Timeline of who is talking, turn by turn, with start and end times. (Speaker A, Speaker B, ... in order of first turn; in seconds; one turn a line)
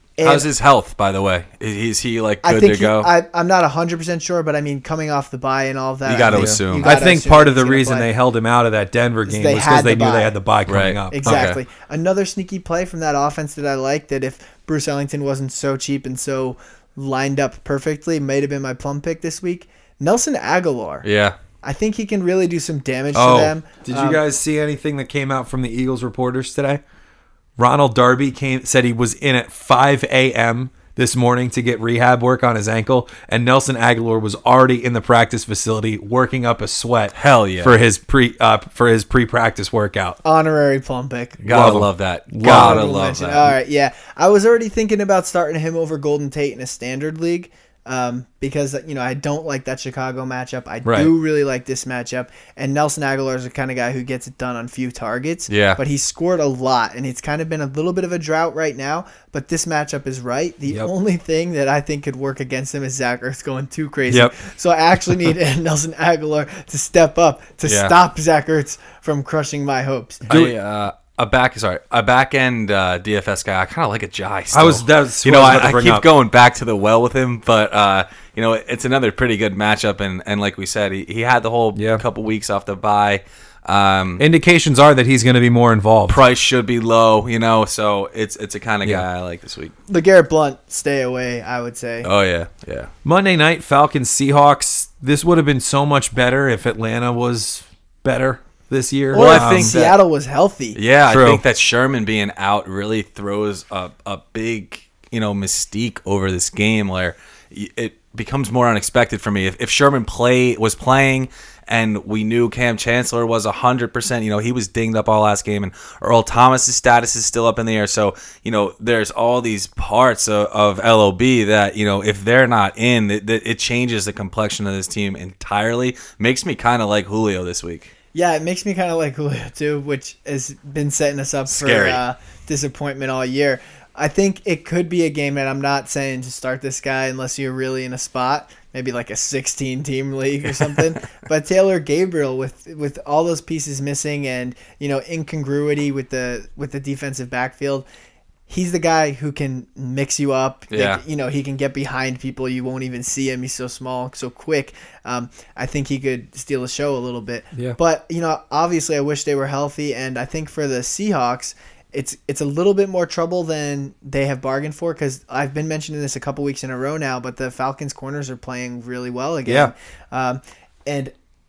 Speaker A: 0.2-0.5
Speaker B: 0.2-3.1
Speaker A: 2.4-8.1
Speaker B: 6.0-7.0
Speaker C: 6.3-11.5
Speaker A: 9.2-10.4
Speaker B: 10.7-11.6
Speaker A: 11.1-21.0
Speaker B: 21.0-21.4
Speaker A: 21.6-24.2
Speaker C: 23.1-26.8
Speaker C: 27.6-40.2
Speaker B: 37.1-37.7
Speaker A: 40.2-41.4
Speaker B: 41.4-43.5
Speaker C: 41.5-42.8
Speaker A: 42.4-70.2
Speaker C: 50.8-51.1
Speaker B: 55.5-55.8
Speaker C: 64.1-64.3
Speaker B: 67.7-67.9
Speaker B: 70.3-84.2
Speaker C: 70.3-70.5
Speaker C: 74.5-76.1
Speaker C: 81.7-82.0
Speaker C: 84.2-86.2
Speaker B: 86.1-89.7
Speaker A: 89.9-92.1
Speaker B: 92.0-92.9
Speaker C: 93.0-99.8
Speaker B: 99.1-100.0
Speaker A: 99.1-100.8
Speaker B: 100.7-127.9
Speaker C: 101.1-101.4
Speaker A: 128.1-147.8
Speaker B: 131.5-132.0
Speaker A: 148.5-171.1
Speaker B: 150.7-151.0
Speaker C: 169.4-169.7